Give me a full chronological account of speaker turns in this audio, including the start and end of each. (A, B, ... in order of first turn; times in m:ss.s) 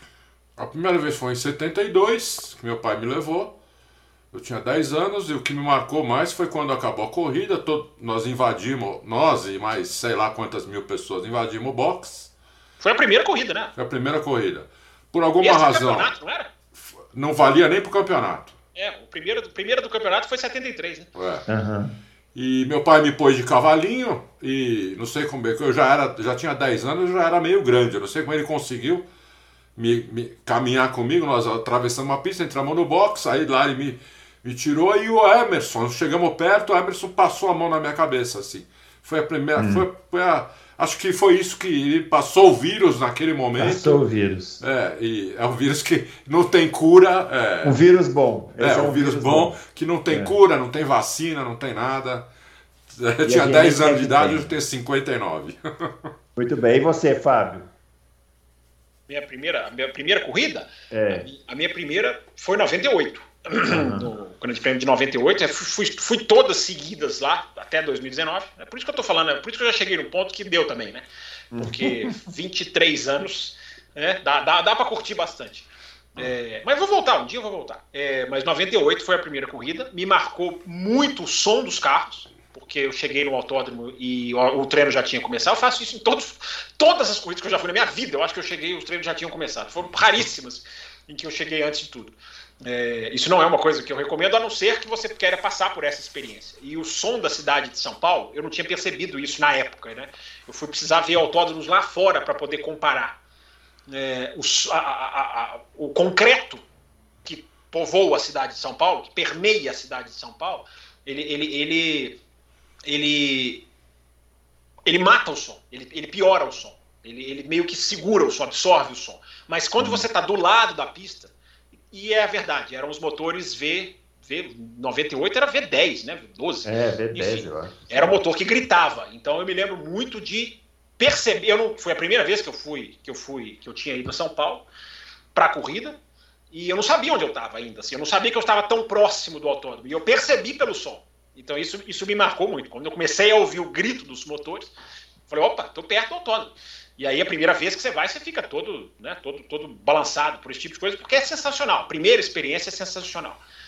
0:00.6-0:03.5 A
0:04.3-0:12.3 A
0:12.8-0:13.7 B
0:13.8-0:16.1 A
0:15.4-0:16.5 B
0:16.8-0:18.6 A
0:18.8-0:21.1 B
0:21.2-0:21.4 A
0:21.5-0:22.0 C
0:22.4-0:29.0 A
0:29.8-0:44.0 A
0:39.6-0:39.9 C
0:43.6-0:44.6 C
0:44.6-0:47.8 A
0:47.6-0:49.6 C
0:48.6-0:52.2 A
0:50.1-0:50.4 C
0:52.9-0:56.1 A
0:53.2-0:54.5 C
0:56.4-0:57.7 C
0:59.1-1:43.2 B
1:00.9-1:01.3 C
1:03.7-1:04.1 C
1:11.5-1:12.2 C
1:43.9-1:46.6 B
1:47.2-1:52.2 B
1:52.9-1:53.6 B
1:54.9-2:01.3 B
1:59.8-2:00.1 C
2:01.9-2:14.7 B
2:06.6-2:08.2 C
2:15.3-2:16.0 B
2:16.5-2:24.7 B
2:25.3-2:33.4 B